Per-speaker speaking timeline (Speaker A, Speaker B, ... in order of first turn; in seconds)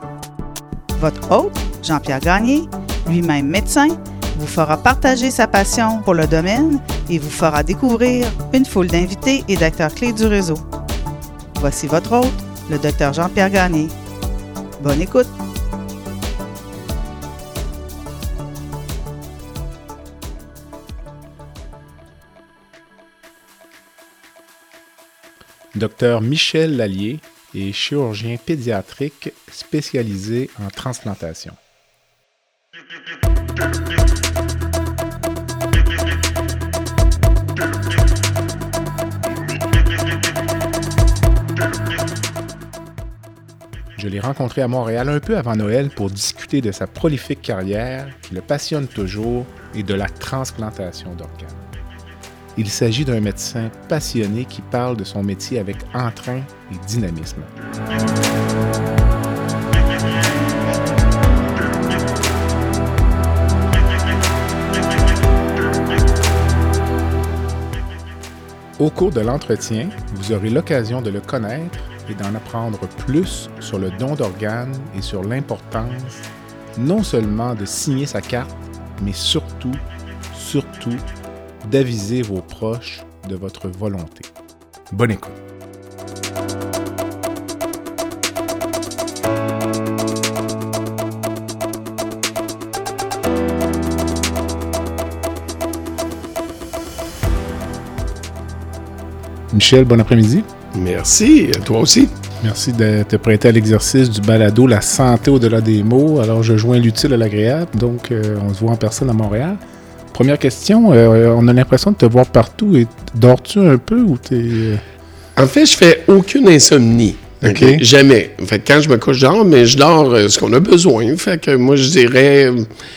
Speaker A: 0.9-10.6, 11.6-13.9, 14.8-15.3
Speaker B: 25.7-31.6, 43.9-51.7, 52.5-57.5, 68.8-76.2, 76.7-81.0, 81.6-84.3, 84.9-85.4, 99.5-100.5, 102.4-109.6, 110.1-114.8, 117.4-117.8
Speaker C: 100.7-102.1, 115.4-122.7